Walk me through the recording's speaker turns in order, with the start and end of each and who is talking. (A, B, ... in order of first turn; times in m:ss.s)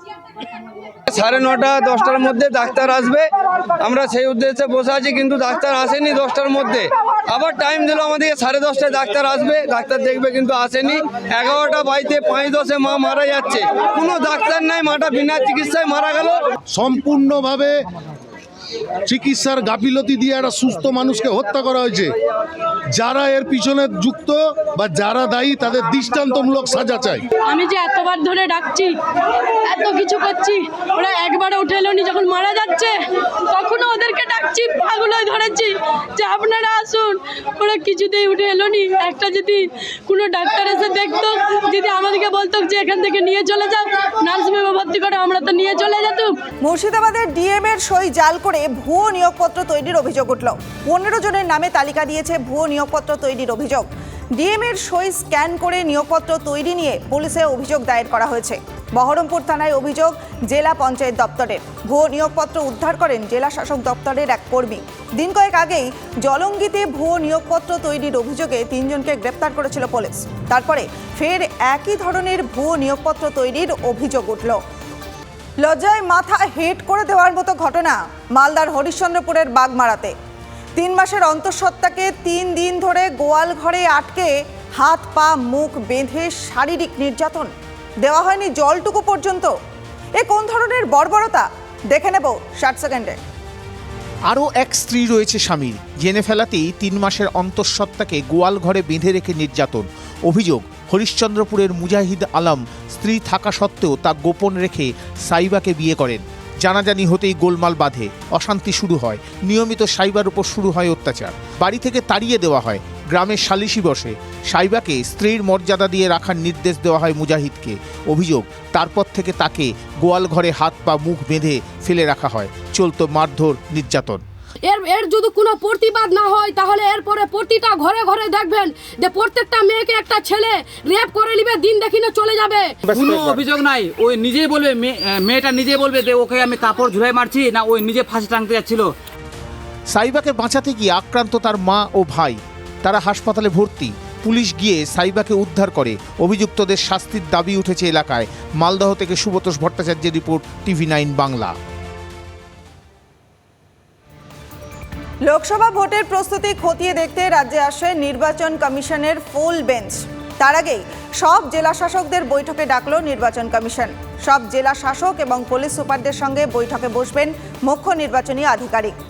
0:01.1-0:03.3 A
0:03.8-0:16.4 A
0:16.7-0:17.8 B
0:19.1-0:22.1 B
0:22.9-0:27.2 B
0:27.5-0:28.9 C
0:29.6-0:33.0 C
0:33.5-0:46.3 C
0:46.6-1:14.6 D
1:15.6-1:20.1 D
1:20.8-1:27.5 D
1:28.0-1:29.5 D
1:30.2-1:33.2 D
1:34.3-2:04.2 E
2:04.7-2:12.7 C
2:12.9-2:18.9 F
2:19.9-2:31.6 E
2:35.3-2:49.0 D